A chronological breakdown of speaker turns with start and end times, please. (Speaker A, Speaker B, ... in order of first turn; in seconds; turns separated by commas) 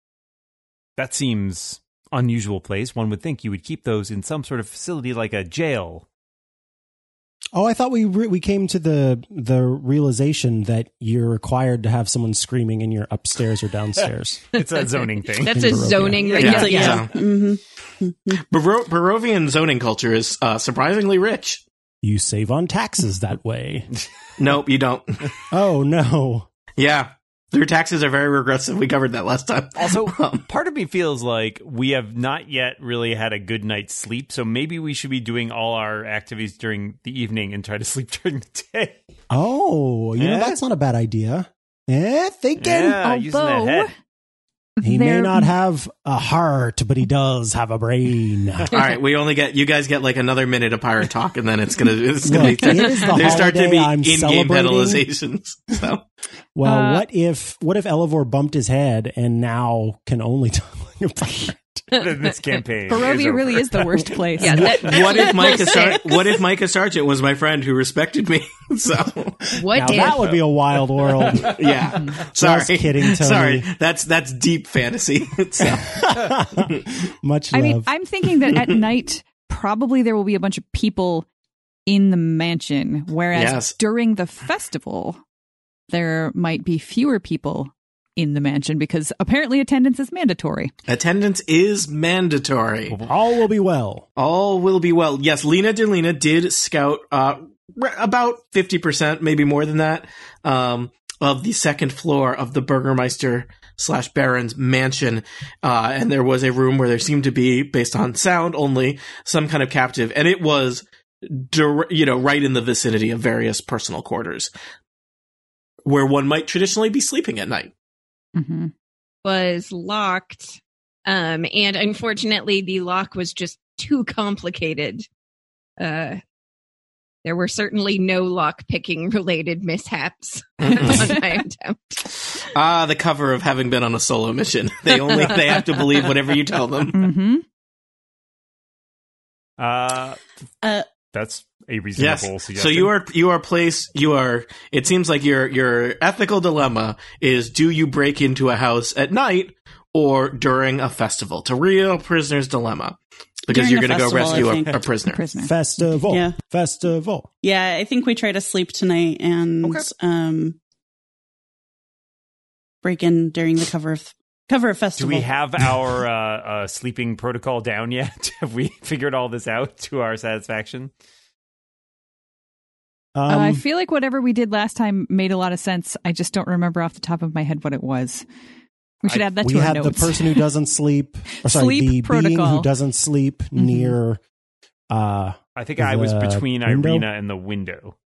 Speaker A: 1.0-6.1, Speaker B: 7.5-14.6, Speaker A: 14.5-16.1, Speaker C: 14.8-17.1, Speaker B: 15.5-16.4, Speaker D: 16.3-18.4, Speaker E: 16.4-17.2, Speaker E: 18.4-21.6, Speaker B: 22.0-23.9, Speaker E: 24.4-25.3, Speaker B: 25.5-26.5, Speaker E: 26.8-30.4, Speaker A: 29.8-39.0, Speaker B: 39.3-43.0, Speaker A: 40.2-40.6, Speaker A: 42.6-43.9, Speaker F: 43.0-43.9, Speaker F: 44.8-45.5, Speaker B: 44.8-48.7, Speaker E: 48.7-56.0, Speaker B: 52.2-55.0, Speaker C: 52.5-52.8, Speaker B: 56.5-61.9, Speaker F: 56.6-57.1, Speaker C: 61.9-62.3, Speaker A: 61.9-63.7, Speaker F: 62.9-65.2, Speaker C: 64.4-66.3, Speaker E: 64.7-69.5, Speaker C: 69.5-70.3, Speaker B: 69.6-71.5, Speaker A: 70.0-70.4, Speaker A: 71.0-71.5, Speaker E: 71.4-76.8, Speaker B: 72.3-73.7, Speaker B: 75.9-77.9, Speaker F: 77.5-81.2, Speaker F: 81.9-85.2, Speaker E: 83.3-83.8, Speaker F: 85.9-90.7, Speaker E: 90.9-93.0, Speaker A: 92.9-93.2, Speaker B: 93.1-94.1, Speaker E: 94.2-114.5, Speaker E: 115.8-117.7, Speaker F: 118.3-118.7, Speaker C: 119.2-125.1, Speaker C: 125.8-126.2, Speaker C: 127.2-131.9, Speaker E: 130.6-131.2, Speaker E: 132.5-137.0, Speaker F: 136.9-137.4, Speaker A: 139.6-140.2, Speaker A: 141.1-142.9, Speaker E: 142.0-155.2, Speaker D: 153.5-154.8, Speaker F: 155.1-155.8, Speaker B: 155.4-157.3, Speaker D: 156.1-156.3, Speaker D: 157.4-160.6, Speaker D: 162.8-165.3, Speaker A: 165.0-170.9, Speaker B: 173.2-173.6, Speaker F: 173.3-178.2, Speaker F: 179.0-180.4, Speaker B: 179.4-184.2, Speaker F: 181.4-182.7, Speaker F: 183.6-184.0, Speaker B: 184.9-187.1, Speaker A: 185.6-187.9